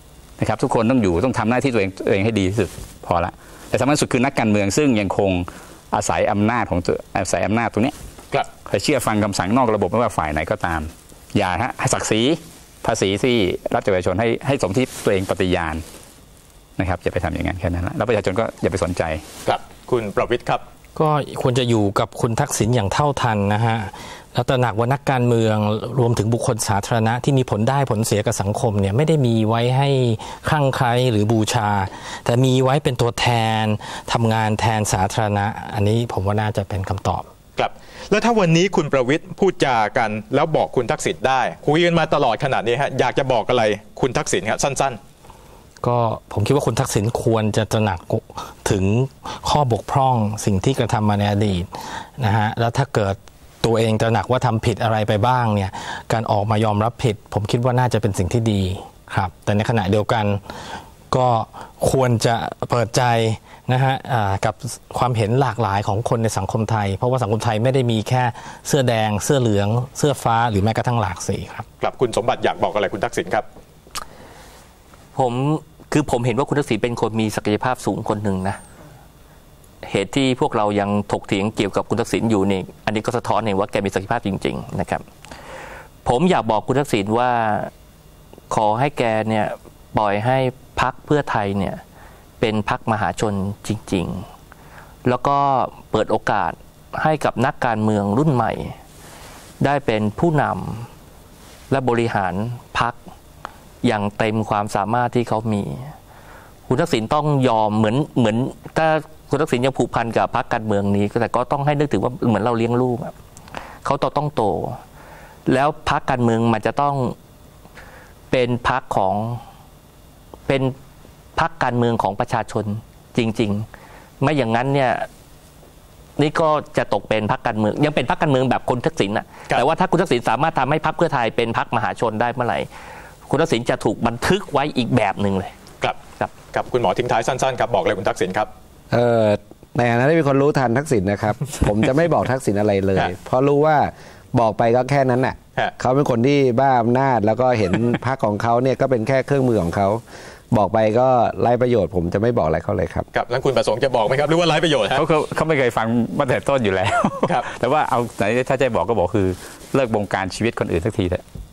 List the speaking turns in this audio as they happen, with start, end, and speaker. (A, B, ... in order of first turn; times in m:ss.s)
0:00.4-0:07.9 A
0:08.7-0:15.8 A
0:16.8-0:19.2 A
0:19.4-0:20.6 B
0:21.0-0:37.2 C
0:37.6-0:45.0 B
0:45.8-1:00.4 C
1:01.1-1:11.7 C
1:11.8-1:13.4 B
1:15.2-1:18.6 D
1:19.8-1:25.0 D
1:26.0-1:27.7 D
1:28.5-1:31.8 D
1:32.4-1:34.3 D
1:35.0-1:38.8 D
1:39.6-1:40.9 D
1:41.7-1:43.0 D
1:43.8-1:45.9 D
1:46.7-1:53.1 D
1:53.8-1:54.8 D
1:55.5-1:57.2 D
1:58.3-1:59.4 D
2:00.5-2:00.8 D
2:01.4-2:03.7 D
2:04.2-2:05.1 D
2:06.2-2:12.7 D
2:13.3-2:15.5 D
2:15.8-2:18.5 B
2:18.9-2:33.1 E
2:33.1-2:35.0 B
2:35.0-2:41.2 A